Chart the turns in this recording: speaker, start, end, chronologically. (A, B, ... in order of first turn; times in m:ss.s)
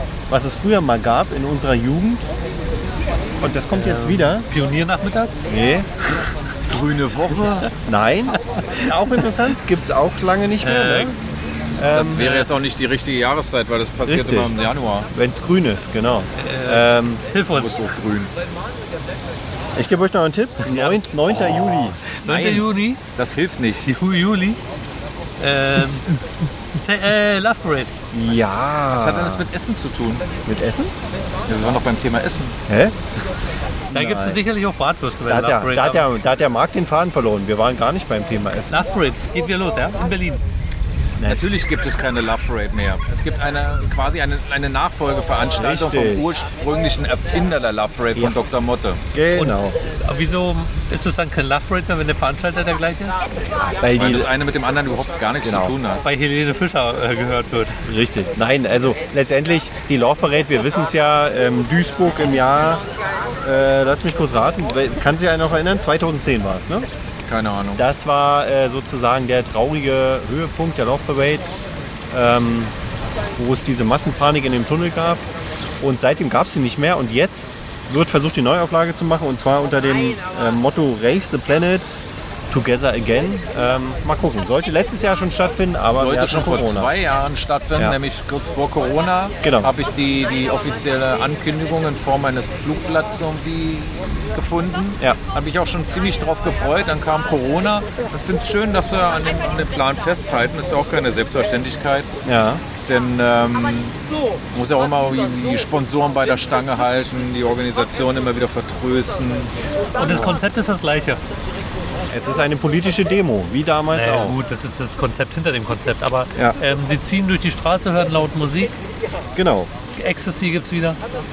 0:00.3-0:02.3 A
0:03.4-0:04.5 A
0:03.7-0:05.3 B
0:05.5-0:05.9 A
0:06.7-0:07.7 C
0:07.7-0:11.2 A
0:10.6-0:11.1 B
0:11.8-0:12.5 A
0:11.9-0:15.1 C
0:14.0-0:14.5 A
0:15.1-0:17.2 A
0:16.4-0:17.9 B
0:17.5-0:18.3 C
0:19.8-0:22.0 A
0:20.7-0:20.9 B
0:22.0-0:23.9 C
0:22.2-0:23.0 B
0:23.8-0:24.6 B
0:25.4-0:26.1 B
0:25.8-0:26.8 A
0:26.8-0:27.9 B
0:28.1-0:29.4 A
0:28.3-0:30.3 C
0:30.4-0:30.9 A
0:31.4-0:32.6 C
0:32.7-0:32.9 A
0:33.9-0:34.4 A
0:33.9-0:36.1 B
0:35.3-0:38.8 A
0:38.7-0:40.4 B
0:41.2-0:41.5 A
0:41.2-0:49.0 C
0:45.6-0:46.4 A
0:49.1-0:49.8 A
0:49.4-0:53.3 B
0:53.6-0:54.3 A
0:53.8-0:56.0 C
0:55.4-0:55.7 A
0:56.0-0:57.8 B
0:57.8-1:02.8 A
1:03.4-1:06.9 A
1:07.2-1:07.8 C
1:07.8-1:12.7 A
1:13.4-1:15.2 A
1:15.8-1:26.9 A
1:25.9-1:42.1 C
1:29.4-1:29.7 A
1:42.2-1:42.6 A
1:42.8-1:44.0 C
1:44.5-1:49.5 C
1:49.9-1:51.2 B
1:50.0-1:50.4 A
1:52.1-1:54.4 A
1:53.9-1:58.7 B
1:59.4-1:59.7 A
1:59.9-2:01.0 B